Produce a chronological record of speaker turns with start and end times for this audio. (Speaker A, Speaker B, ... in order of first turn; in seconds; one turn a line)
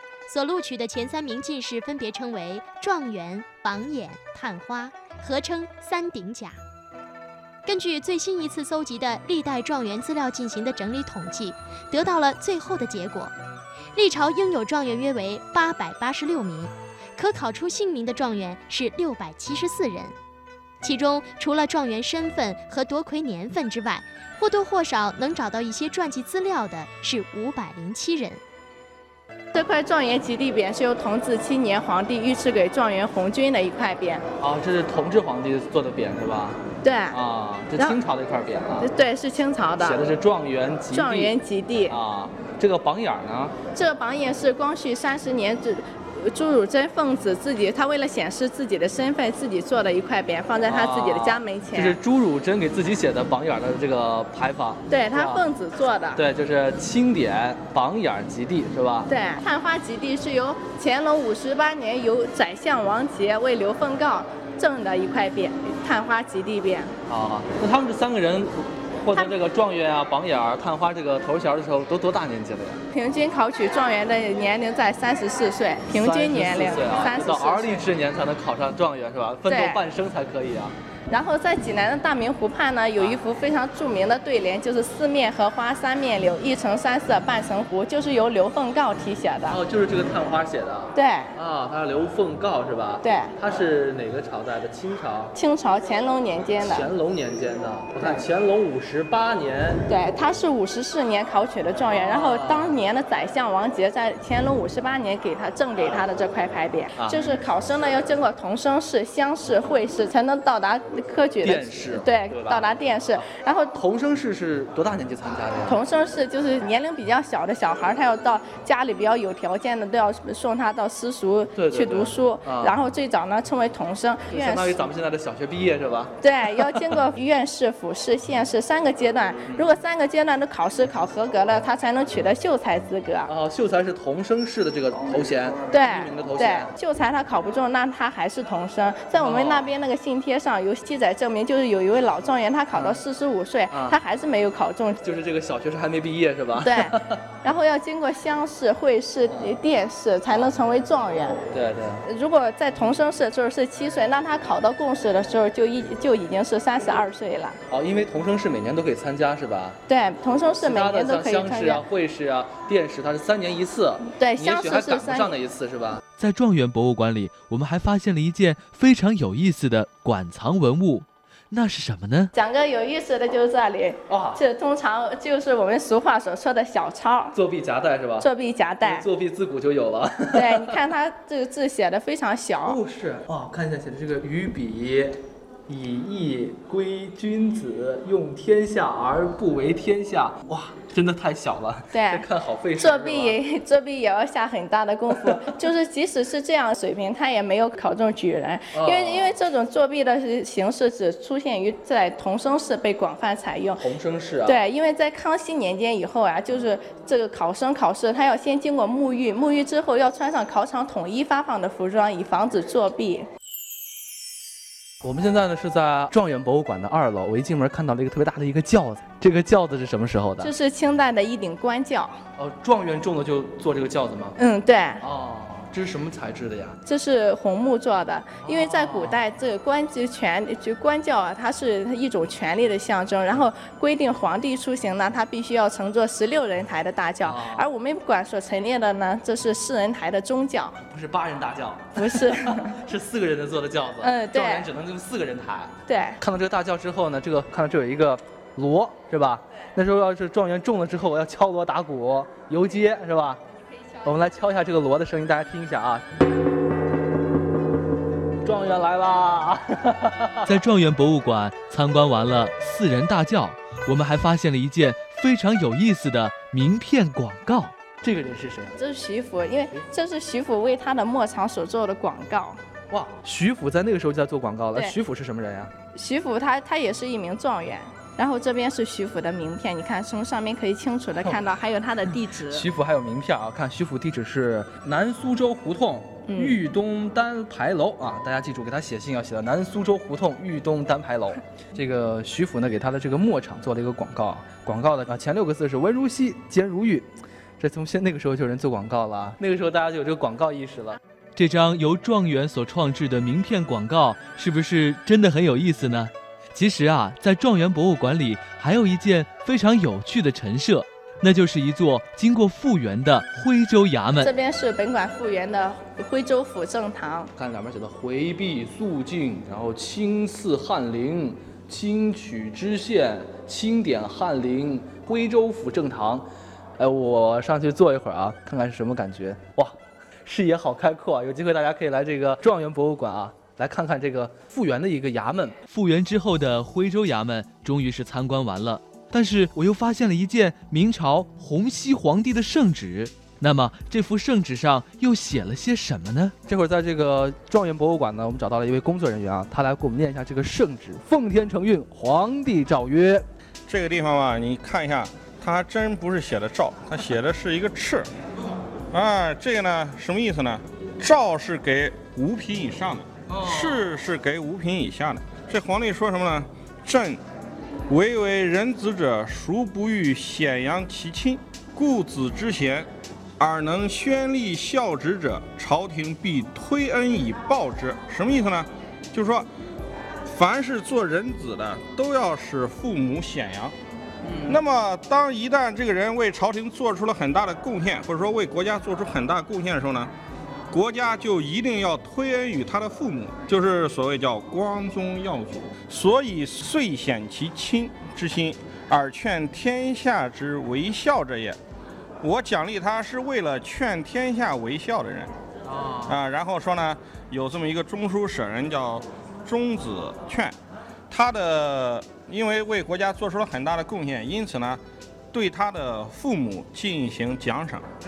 Speaker A: 0.3-6.6
Speaker A: 7.7-13.3
Speaker A: 13.9-20.1
Speaker A: 20.8-28.4
Speaker B: 29.5-34.2
Speaker C: 34.4-38.9
Speaker B: 36.8-37.2
Speaker B: 37.7-38.0
Speaker B: 38.8-40.0
Speaker C: 39.8-41.3
Speaker B: 40.9-42.0
Speaker C: 41.9-43.5
Speaker B: 43.7-52.0
Speaker C: 50.6-55.4
Speaker B: 54.9-56.2
Speaker C: 56.1-59.1
Speaker B: 59.1-66.9
Speaker C: 67.1-72.8
Speaker B: 72.9-77.9
Speaker C: 75.9-80.7
Speaker B: 79.5-79.8
Speaker B: 81.1-89.6
Speaker C: 89.5-95.3
Speaker B: 90.9-91.3
Speaker B: 93.0-93.3
Speaker B: 95.3-96.9
Speaker C: 96.6-99.9
Speaker B: 99.9-113.8
Speaker C: 102.1-102.8
Speaker C: 107.0-107.4
Speaker C: 111.4-112.7
Speaker C: 113.7-115.8
Speaker B: 115.7-124.8
Speaker C: 121.5-122.7
Speaker C: 124.3-127.0
Speaker B: 126.2-133.3
Speaker C: 133.3-136.7
Speaker B: 135.7-145.1
Speaker C: 139.2-139.7
Speaker C: 142.7-143.0
Speaker C: 143.7-144.0
Speaker C: 145.0-147.2
Speaker B: 146.6-151.4
Speaker C: 151.5-152.0
Speaker B: 152.0-157.6
Speaker C: 157.7-159.8
Speaker B: 159.9-161.8
Speaker C: 160.6-166.0
Speaker B: 164.2-165.3
Speaker D: 166.2-172.3
Speaker B: 172.3-177.3
Speaker C: 174.1-174.4
Speaker C: 177.3-178.3
Speaker B: 178.2-179.1
Speaker C: 178.8-180.8
Speaker B: 180.3-182.8
Speaker C: 182.6-193.3
Speaker B: 191.9-192.2
Speaker B: 192.8-203.8
Speaker C: 198.7-199.3
Speaker C: 203.8-204.6
Speaker B: 204.4-213.2
Speaker C: 215.0-220.5
Speaker B: 220.4-222.2
Speaker C: 222.4-224.3
Speaker B: 224.4-225.0
Speaker C: 225.0-226.8
Speaker B: 226.8-240.8
Speaker C: 228.4-229.2
Speaker C: 237.2-237.7
Speaker C: 240.9-253.4
Speaker B: 241.9-242.5
Speaker B: 244.0-244.7
Speaker B: 245.8-246.2
Speaker C: 254.0-256.0
Speaker C: 258.4-260.6
Speaker D: 260.5-267.7
Speaker C: 268.0-268.8
Speaker B: 268.8-272.6
Speaker C: 272.9-275.7
Speaker B: 275.9-282.6
Speaker C: 282.5-301.0
Speaker B: 286.3-286.6
Speaker D: 301.4-314.3
Speaker B: 314.2-317.3
Speaker C: 317.4-326.3
Speaker C: 326.8-329.7
Speaker C: 330.2-335.6
Speaker D: 335.7-346.3
Speaker C: 346.4-353.2
Speaker E: 353.7-358.1
Speaker E: 358.9-367.2
Speaker C: 363.3-363.8
Speaker E: 367.9-379.5
Speaker E: 380.3-383.7
Speaker C: 384.2-384.6
Speaker E: 384.4-390.1
Speaker E: 390.7-401.6
Speaker E: 402.2-405.3
Speaker C: 405.7-406.2
Speaker E: 406.1-410.5
Speaker E: 411.1-414.8
Speaker E: 415.3-417.8